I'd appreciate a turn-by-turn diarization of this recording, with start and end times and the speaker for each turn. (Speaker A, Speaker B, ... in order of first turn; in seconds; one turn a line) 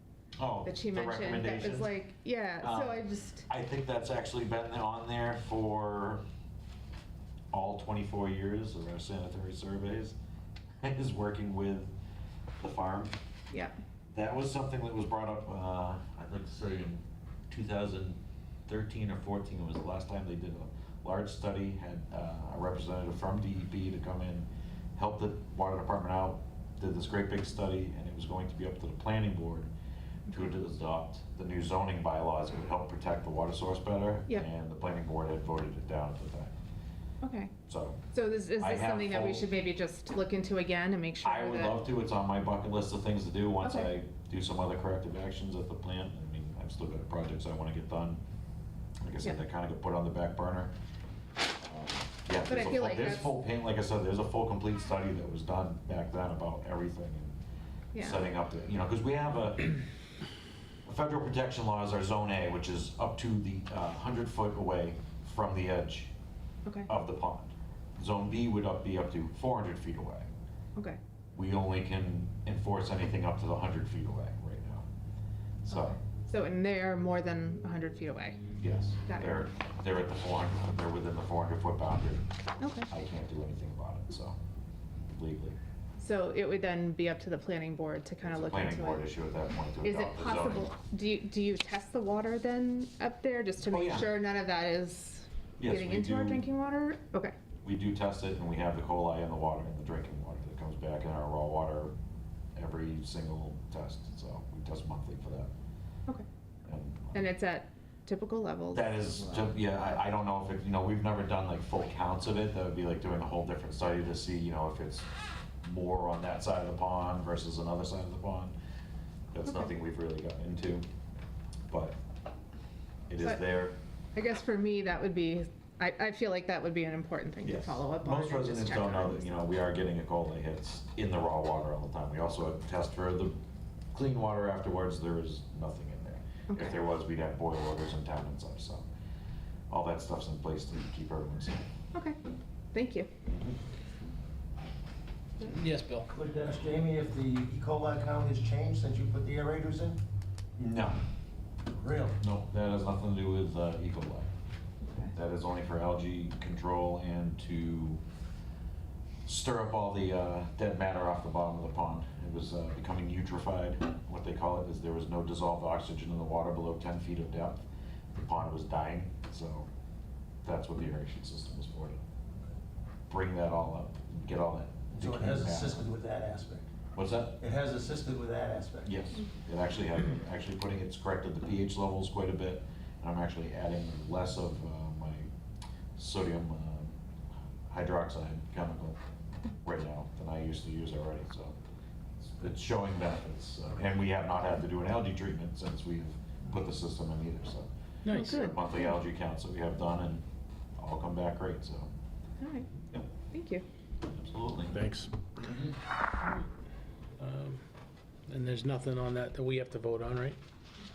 Speaker A: 0.4-1.9
Speaker B: 0.6-3.5
Speaker A: 2.6-6.2
Speaker A: 7.5-10.2
Speaker A: 10.8-11.9
Speaker A: 12.6-13.1
Speaker A: 14.1-29.7
Speaker A: 30.3-36.5
Speaker B: 37.2-37.5
Speaker A: 37.7-38.0
Speaker B: 38.1-41.9
Speaker A: 38.6-39.5
Speaker A: 41.2-48.2
Speaker B: 43.6-43.9
Speaker A: 49.0-50.7
Speaker A: 51.6-57.4
Speaker B: 52.4-53.3
Speaker B: 57.9-58.2
Speaker A: 58.0-59.8
Speaker A: 60.8-66.1
Speaker A: 66.9-70.3
Speaker A: 71.3-74.8
Speaker A: 75.6-76.0
Speaker B: 75.7-78.5
Speaker A: 78.6-82.3
Speaker B: 79.0-79.5
Speaker B: 82.6-82.9
Speaker A: 82.9-84.4
Speaker A: 85.1-85.5
Speaker B: 86.0-89.1
Speaker A: 88.3-90.7
Speaker B: 89.8-97.3
Speaker A: 93.7-94.1
Speaker A: 95.6-96.5
Speaker A: 97.6-101.9
Speaker A: 102.5-105.5
Speaker A: 106.6-107.2
Speaker B: 107.1-109.0
Speaker A: 108.7-115.1
Speaker A: 115.6-118.5
Speaker A: 119.3-120.8
Speaker A: 121.7-122.0
Speaker A: 123.1-123.8
Speaker B: 124.1-129.3
Speaker A: 127.4-133.4
Speaker A: 133.9-138.8
Speaker B: 136.5-136.8
Speaker A: 139.7-141.7
Speaker B: 141.9-142.2
Speaker B: 142.7-143.1
Speaker A: 143.2-143.6
Speaker C: 145.4-146.1
Speaker D: 146.1-150.0
Speaker A: 150.6-151.0
Speaker D: 151.6-152.2
Speaker A: 152.2-154.3
Speaker B: 154.8-155.1
Speaker A: 155.1-158.0
Speaker A: 159.2-169.7
Speaker A: 170.4-172.0
Speaker A: 173.1-175.9
Speaker D: 174.9-176.7
Speaker A: 176.9-177.4
Speaker D: 177.4-178.9
Speaker A: 178.8-185.3
Speaker A: 186.0-186.9
Speaker A: 187.7-189.0
Speaker A: 189.6-191.5
Speaker A: 192.3-200.2
Speaker C: 198.1-198.4
Speaker B: 198.1-198.8
Speaker A: 200.8-201.9
Speaker B: 202.4-202.7
Speaker B: 203.3-203.6
Speaker A: 204.1-204.8
Speaker C: 204.7-205.1
Speaker C: 207.2-207.6
Speaker C: 208.3-210.4